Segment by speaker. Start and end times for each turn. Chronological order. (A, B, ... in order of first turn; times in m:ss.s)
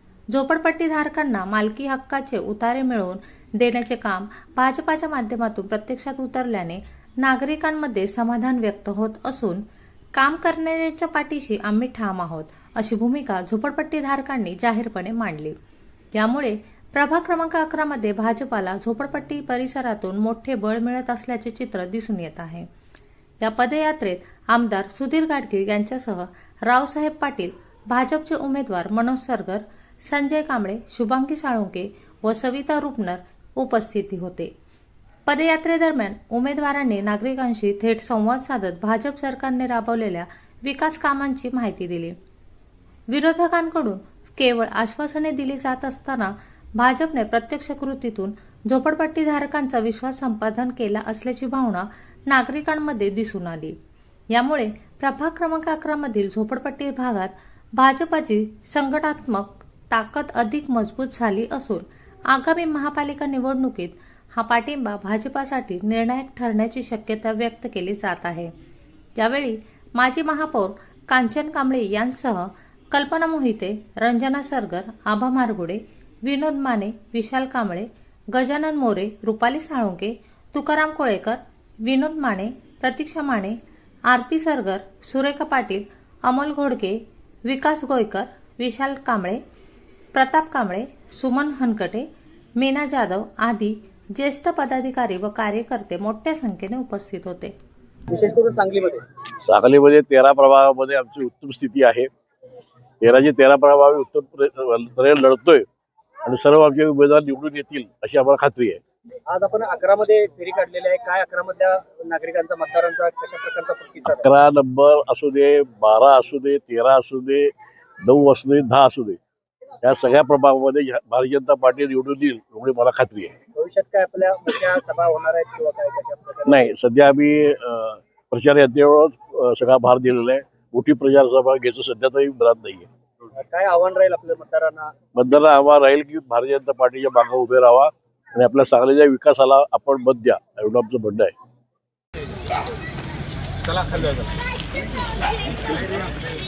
0:00.3-0:09.6 A
0:10.2-0:15.6 A
0:16.1-0:22.7 A
0:23.4-0:34.5 A
0:35.3-0:42.2 A
0:43.1-0:53.8 A
0:54.3-1:08.5 A
1:09.2-1:23.6 A
1:24.1-1:29.4 A
1:30.1-1:32.1 A
1:32.6-1:37.5 A
1:38.1-1:39.0 B
1:39.4-1:42.1 C
1:43.0-1:45.6 C
1:46.2-1:48.8 C
1:49.3-1:54.3 B
1:54.0-1:59.2 C
1:59.8-2:03.4 C
2:03.6-2:06.6 B
2:06.5-2:12.9 C
2:13.4-2:14.9 B
2:15.1-2:21.3 C